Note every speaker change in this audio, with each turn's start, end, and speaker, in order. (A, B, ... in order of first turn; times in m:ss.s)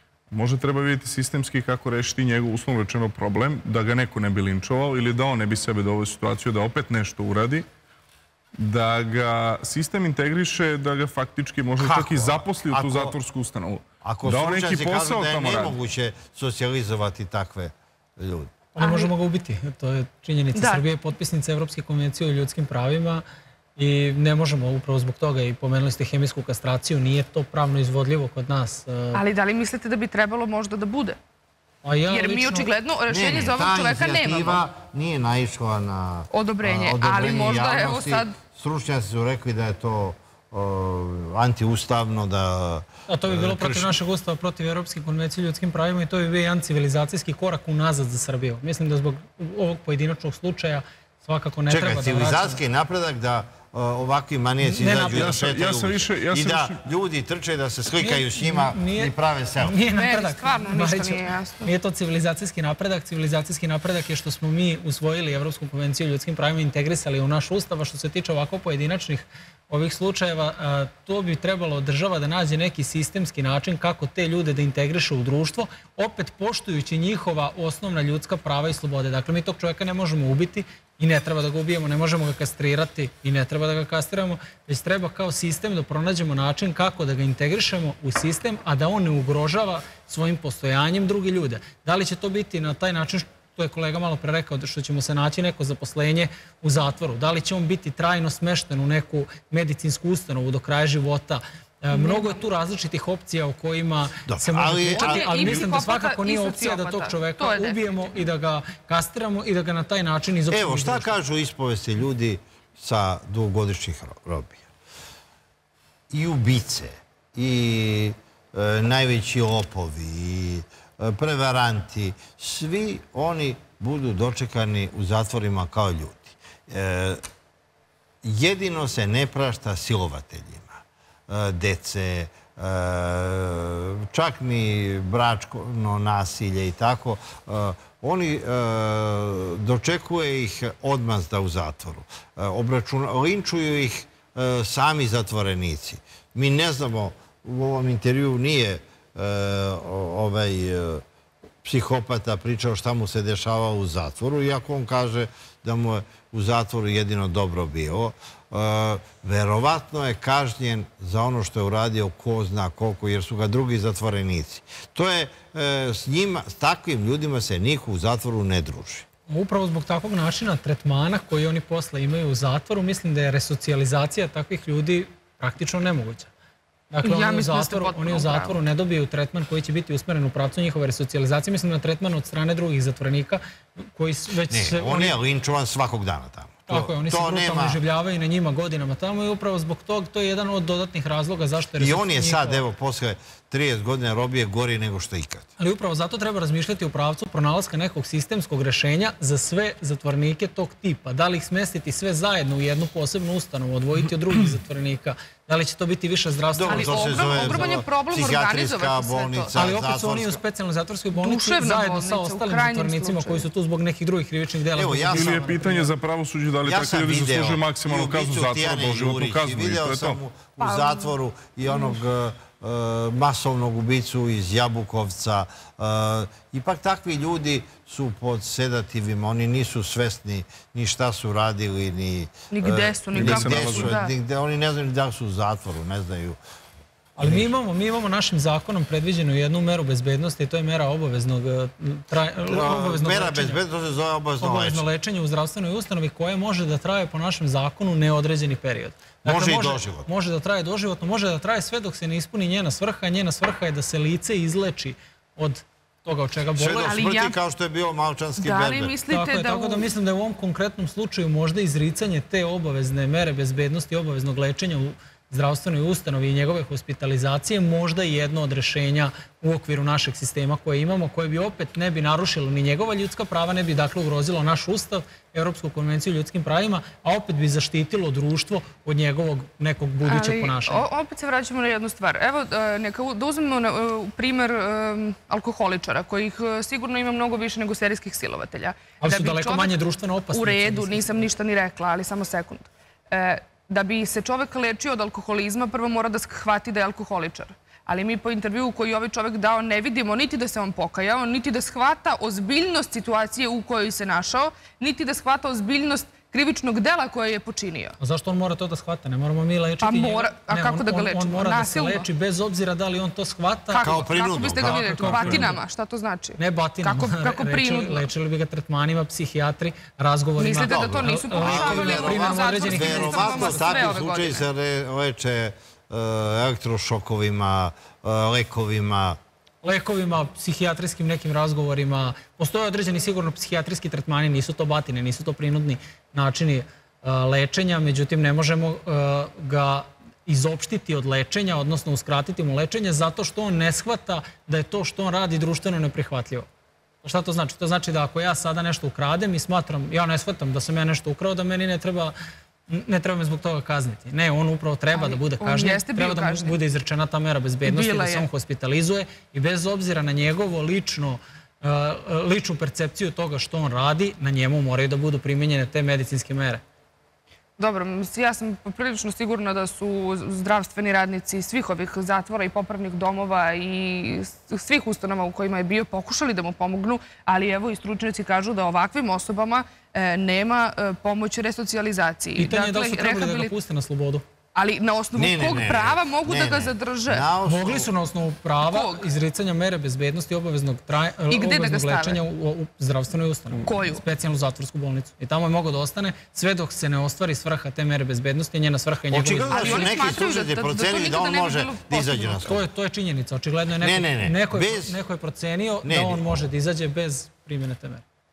0:00.3-0:07.6 A
0:08.6-0:15.7 A
0:11.8-0:13.2 B
0:14.0-0:18.6 B
0:18.8-0:23.2 C
0:18.8-0:19.1 D
0:20.5-0:20.8 D
0:23.8-0:29.2 C
0:29.1-0:31.2 D
0:31.8-0:32.7 C
0:32.1-0:34.6 D
0:33.1-0:44.0 B
0:36.3-0:38.4 D
0:43.1-0:52.6 C
0:51.7-0:59.8 B
0:54.6-0:55.4 C
0:55.1-0:56.8 A
0:58.0-1:51.1 C
0:59.9-1:01.7 D
1:41.9-1:42.3 D
1:44.3-1:45.6 B
1:44.9-1:47.8 D
1:50.5-1:54.7 B
1:56.1-2:07.2 B
2:08.2-2:31.0 B
2:31.6-2:49.0 B
2:49.3-2:56.3 C
2:56.9-3:05.2 C
2:57.0-2:58.6 D
3:04.5-3:07.8 B
3:06.7-3:12.6 C
3:11.8-3:15.5 B
3:15.6-3:27.8 C
3:26.6-3:30.4 B
3:26.7-3:29.5 D
3:29.5-3:35.9 C
3:31.1-3:33.4 D
3:34.8-3:35.4 B
3:35.1-3:40.2 A
3:36.6-3:56.4 B
3:40.6-3:41.1 D
3:52.5-3:54.1 D
3:53.1-3:53.9 A
3:57.2-4:03.6 C
3:57.2-3:57.5 B
4:02.5-4:04.8 B
4:04.4-4:17.0 C
4:09.2-4:10.1 B
4:16.6-4:18.9 B
4:16.8-4:17.4 D
4:18.4-4:19.8 D
4:19.1-4:40.8 C
4:40.0-4:49.7 D
4:49.0-4:51.2 C
4:50.3-5:08.0 D
5:08.0-5:15.6 C
5:09.8-5:12.1 D
5:13.7-5:18.0 D
5:13.8-5:15.4 B
5:16.4-5:24.0 C
5:20.4-5:24.4 D
5:20.6-5:29.2 B
5:29.6-5:46.5 C
5:47.0-5:52.1 C
5:52.7-6:06.6 C
5:54.9-5:56.6 D
5:57.6-5:58.3 D
6:07.6-6:23.5 D
6:22.4-6:24.2 C
6:24.5-6:27.2 D
6:25.2-6:27.9 B
6:27.4-6:40.1 C
6:28.6-6:29.0 D
6:31.3-6:32.2 D
6:33.6-6:34.0 D
6:39.1-6:42.6 B
6:39.4-6:42.5 D
6:42.4-6:48.0 C
6:43.8-6:44.9 B
6:45.8-6:46.5 B